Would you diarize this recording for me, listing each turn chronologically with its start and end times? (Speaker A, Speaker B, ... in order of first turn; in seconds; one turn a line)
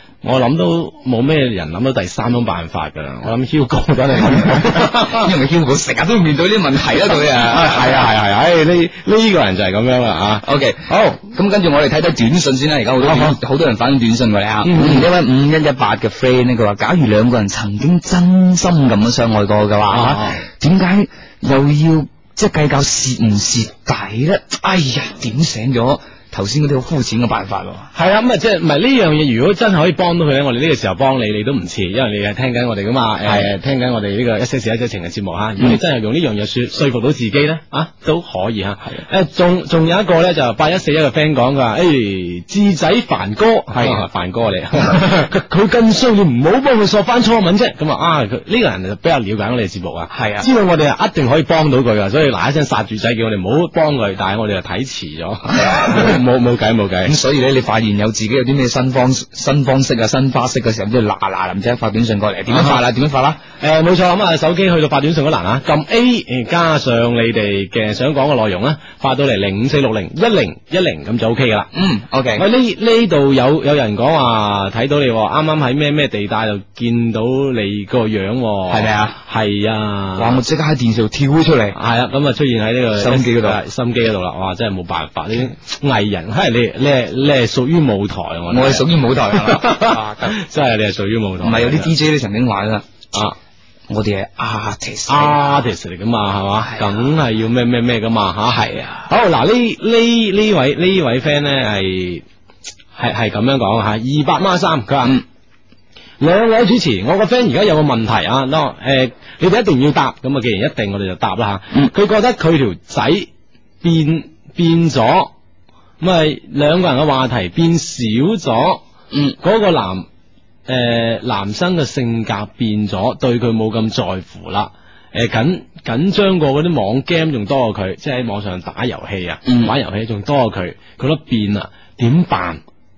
Speaker A: 0.2-5.3
Speaker B: 4.3-8.1
Speaker A: 7.5-10.4
Speaker B: 10.4-27.9
Speaker A: 13.0-13.4
Speaker A: 14.6-15.1
Speaker A: 19.9-20.4
Speaker A: 27.9-57.1
Speaker B: 33.2-33.5
Speaker B: 43.7-44.0
Speaker B: 50.1-50.5
Speaker B: 55.5-56.2
Speaker B: 57.0-63.4
Speaker A: 62.5-62.8
Speaker A: 63.6-71.7
Speaker B: 71.7-72.5
Speaker A: 72.4-80.4
Speaker B: 78.7-79.2
Speaker B: 80.2-81.8
Speaker A: 81.7-91.9
Speaker B: 83.0-83.6
Speaker B: 88.5-90.3
Speaker B: 91.4-92.8
Speaker B: 93.9-95.5
Speaker A: 95.1-102.2
Speaker B: 96.7-97.1
Speaker B: 98.5-99.1
Speaker A: 103.0-105.2
Speaker A: 106.2-113.3
Speaker A: 113.8-115.3
Speaker A: 116.0-118.8
Speaker B: 119.1-119.4
Speaker A: 119.4-120.1
Speaker A: 120.7-132.6
Speaker B: 129.5-129.7